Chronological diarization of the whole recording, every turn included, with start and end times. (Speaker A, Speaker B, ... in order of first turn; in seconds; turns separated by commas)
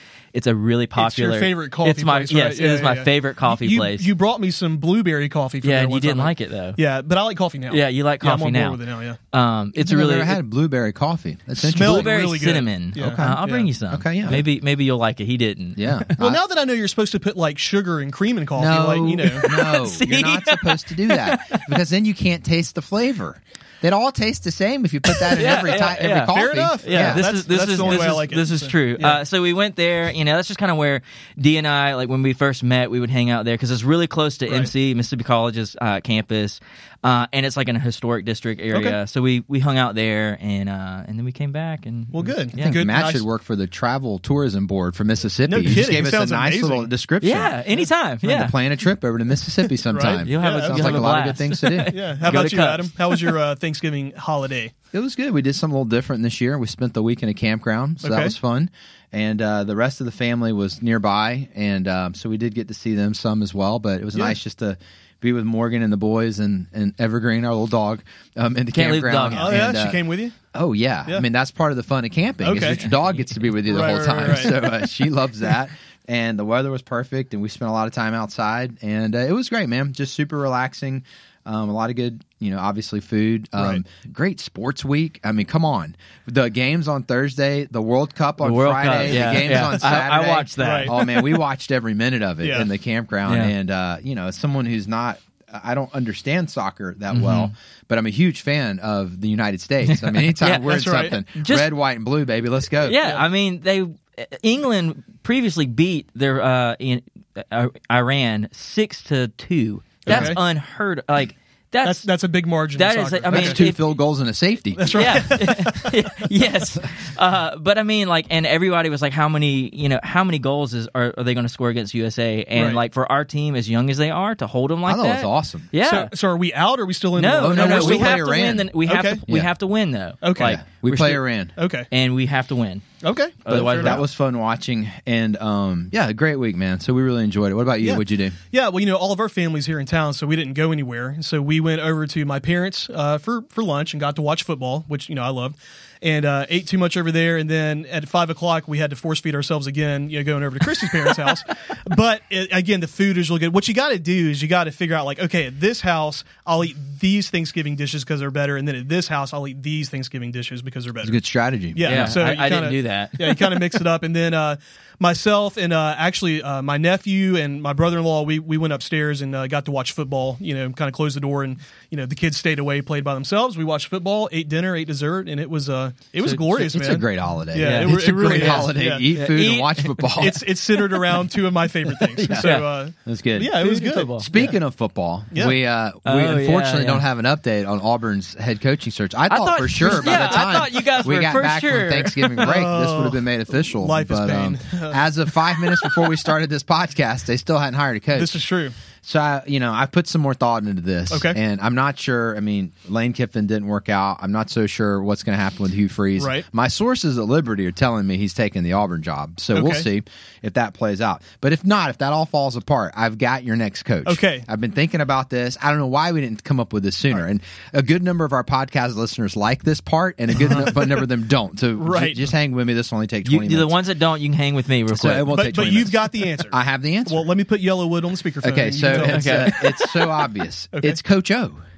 Speaker A: 0.3-4.1, Speaker B: 0.9-9.2, Speaker A: 5.6-6.8, Speaker A: 7.7-8.8, Speaker A: 9.3-10.4, Speaker C: 9.8-12.1, Speaker A: 11.6-16.1, Speaker B: 11.7-13.7, Speaker C: 13.0-14.4, Speaker C: 15.8-16.4, Speaker B: 16.2-19.5, Speaker C: 18.6-27.2, Speaker A: 19.3-21.8, Speaker A: 25.1-42.8, Speaker B: 25.8-29.2, Speaker C: 27.8-28.1, Speaker B: 38.7-39.0, Speaker B: 42.1-43.2, Speaker C: 42.5-52.0, Speaker B: 45.5-46.9, Speaker A: 47.2-48.5, Speaker B: 49.7-54.7, Speaker A: 50.2-53.3, Speaker C: 54.9-103.0, Speaker B: 58.0-58.3, Speaker A: 68.7-69.7, Speaker B: 69.3-70.3, Speaker B: 72.4-72.8, Speaker A: 72.6-73.4, Speaker B: 73.7-74.6, Speaker A: 74.0-74.7, Speaker B: 83.6-83.8, Speaker A: 88.4-91.2, Speaker B: 89.1-89.8, Speaker B: 90.6-90.9, Speaker B: 92.4-92.7, Speaker A: 93.2-93.5, Speaker A: 97.1-97.5, Speaker A: 99.9-101.7, Speaker B: 100.7-101.2, Speaker A: 102.8-112.1, Speaker B: 110.0-110.4, Speaker C: 110.1-110.4, Speaker B: 111.8-113.6, Speaker A: 112.7-113.9, Speaker C: 113.3-115.2, Speaker B: 114.8-115.9, Speaker A: 114.8-126.1, Speaker B: 122.5-122.8, Speaker C: 124.8-125.7, Speaker B: 125.8-128.3, Speaker A: 127.2-131.2, Speaker C: 127.4-128.7, Speaker B: 128.8-129.2, Speaker B: 130.2-130.6, Speaker C: 130.4-131.5, Speaker B: 131.6-131.9, Speaker A: 131.9-132.8, Speaker B: 133.0-134.0, Speaker A: 133.4-134.1, Speaker C: 133.5-138.3, Speaker B: 137.8-161.2, Speaker C: 161.0-162.2, Speaker B: 161.7-179.1, Speaker A: 161.8-163.6, Speaker C: 176.3-180.4, Speaker A: 177.6-180.4, Speaker B: 180.2-184.5, Speaker C: 182.2-198.4, Speaker A: 182.2-182.7, Speaker A: 183.5-184.3, Speaker A: 186.0-187.0, Speaker A: 189.3-192.6, Speaker B: 192.4-195.0, Speaker B: 198.1-198.7, Speaker C: 199.0-223.7, Speaker B: 201.1-201.4, Speaker B: 206.2-206.4, Speaker B: 209.5-209.8, Speaker B: 214.1-214.4, Speaker B: 220.3-221.0, Speaker B: 221.8-222.3, Speaker A: 223.2-225.3, Speaker C: 224.9-227.2, Speaker B: 225.3-231.0, Speaker C: 228.4-231.6, Speaker A: 228.9-229.7